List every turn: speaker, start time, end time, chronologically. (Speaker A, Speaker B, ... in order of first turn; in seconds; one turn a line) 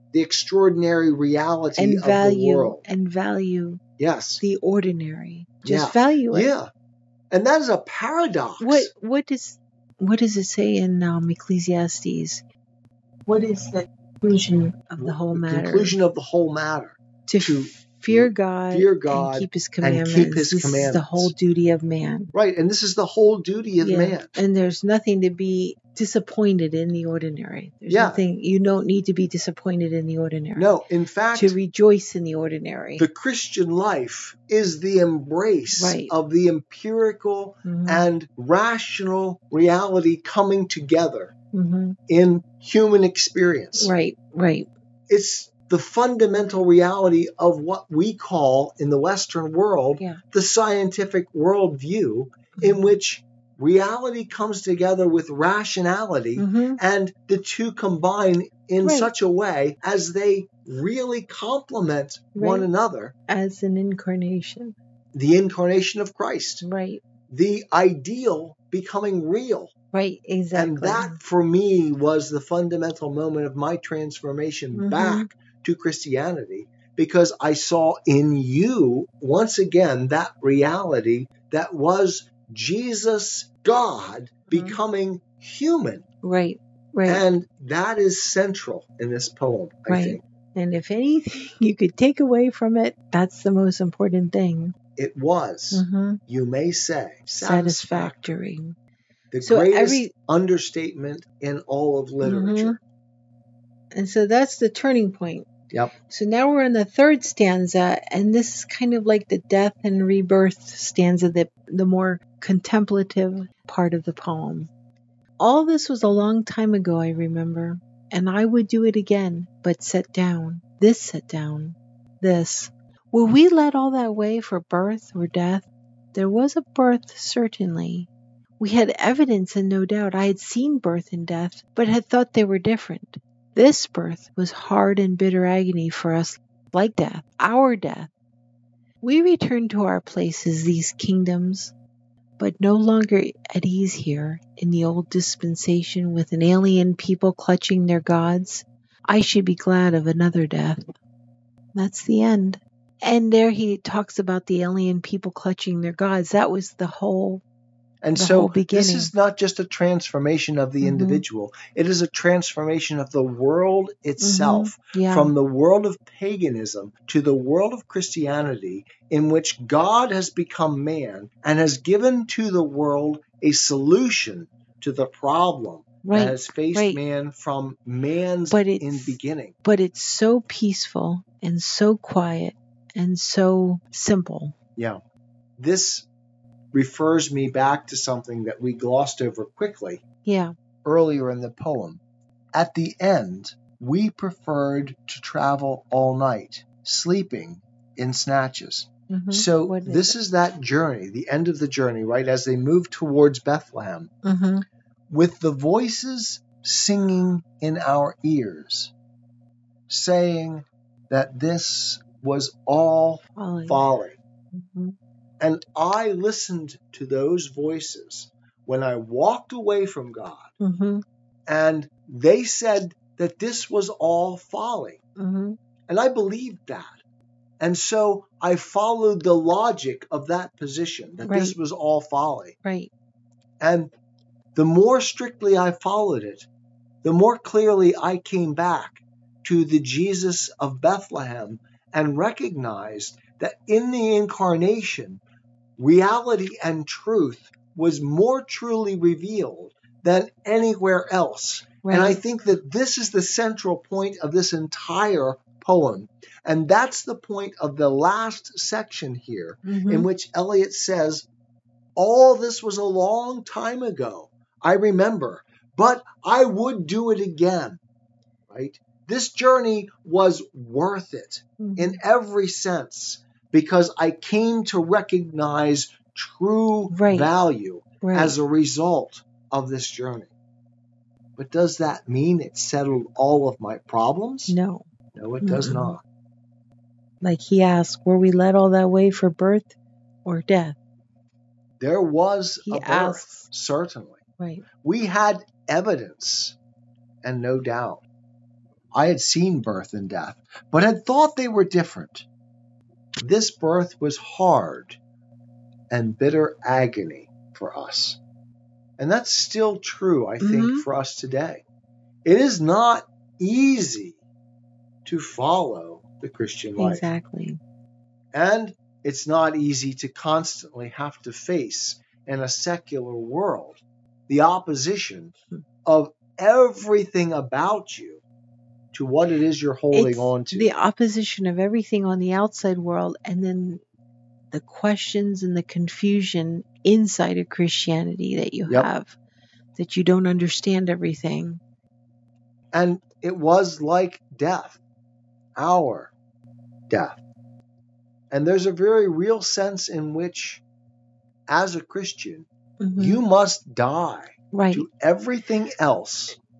Speaker A: 0.1-2.8
Speaker B: 1.8-3.8
Speaker A: 4.0-4.4
Speaker B: 4.4-6.5
Speaker A: 5.6-6.7
Speaker A: 7.3-8.9
Speaker B: 8.6-12.4
Speaker B: 13.3-16.0
Speaker A: 15.0-21.3
Speaker B: 17.3-22.3
Speaker A: 22.3-24.3
Speaker B: 23.8-30.7
Speaker A: 27.9-28.2
Speaker A: 30.6-31.6
Speaker B: 31.3-33.1
Speaker A: 33.0-41.3
Speaker B: 35.8-36.1
Speaker B: 37.6-38.0
Speaker B: 41.5-42.0
Speaker A: 42.1-43.9
Speaker B: 43.8-44.7
Speaker A: 45.1-63.1
Speaker B: 52.6-52.9
Speaker B: 56.4-56.8
Speaker B: 58.8-59.1
Speaker B: 62.4-62.7
Speaker B: 63.3-64.8
Speaker A: 65.1-66.6
Speaker B: 66.6-67.0
Speaker A: 67.3-69.7
Speaker B: 69.9-71.2
Speaker A: 70.5-86.0
Speaker B: 74.8-75.3
Speaker B: 84.5-84.8
Speaker B: 86.2-87.2
Speaker A: 87.1-90.2
Speaker B: 89.9-94.8
Speaker A: 95.0-98.2
Speaker B: 95.7-96.2
Speaker B: 97.3-98.8
Speaker A: 99.3-102.8
Speaker B: 99.4-100.1
Speaker B: 102.2-102.8
Speaker B: 103.9-105.5
Speaker B: 106.1-114.7
Speaker B: 115.4-138.1
Speaker B: 139.0-141.7
Speaker B: 142.4-150.9
Speaker B: 151.8-157.4
Speaker A: 158.0-179.5
Speaker B: 158.2-159.1
Speaker B: 160.8-161.2
Speaker B: 164.2-165.3
Speaker B: 176.0-177.0
Speaker B: 178.5-184.6
Speaker A: 185.6-186.1
Speaker A: 186.7-190.0
Speaker B: 190.2-190.5
Speaker A: 190.8-192.0
Speaker A: 192.5-204.1
Speaker B: 199.1-200.2
Speaker B: 204.2-204.7
Speaker A: 205.1-208.9
Speaker A: 209.9-214.2
Speaker B: 213.4-213.8
Speaker B: 214.5-214.9
Speaker A: 215.4-220.5
Speaker B: 220.6-221.0
Speaker A: 221.5-225.0
Speaker B: 225.2-225.6
Speaker A: 225.9-227.0
Speaker A: 227.6-232.6
Speaker B: 231.2-231.6
Speaker B: 232.6-232.9
Speaker A: 233.6-233.9
Speaker A: 234.6-236.5
Speaker A: 237.0-245.2
Speaker A: 245.8-261.3
Speaker B: 251.8-252.2
Speaker B: 259.6-260.1
Speaker A: 262.0-267.8
Speaker A: 268.5-280.3
Speaker B: 271.6-272.0
Speaker B: 276.9-277.3
Speaker B: 278.0-278.4
Speaker A: 281.4-284.6
Speaker B: 284.5-284.9
Speaker A: 285.1-286.0
Speaker B: 285.4-285.9
Speaker B: 287.2-289.7
Speaker B: 290.2-290.8
Speaker A: 291.8-294.2
Speaker B: 292.7-293.5
Speaker B: 294.4-294.6
Speaker A: 294.8-296.6
Speaker A: 297.2-298.0
Speaker A: 298.9-302.3
Speaker A: 303.2-305.0
Speaker A: 305.9-308.2
Speaker A: 309.0-311.6
Speaker B: 310.4-310.9
Speaker A: 312.2-314.2
Speaker A: 315.1-317.1
Speaker B: 316.8-317.6
Speaker A: 318.3-325.3
Speaker A: 325.9-328.2
Speaker A: 328.9-330.7
Speaker B: 329.9-333.8
Speaker B: 334.5-339.2
Speaker B: 339.8-341.6
Speaker A: 342.7-344.8
Speaker A: 345.6-346.1
Speaker A: 346.9-347.2
Speaker A: 348.3-350.6
Speaker A: 351.5-352.5
Speaker B: 352.8-353.2
Speaker A: 353.0-356.4
Speaker B: 354.5-354.9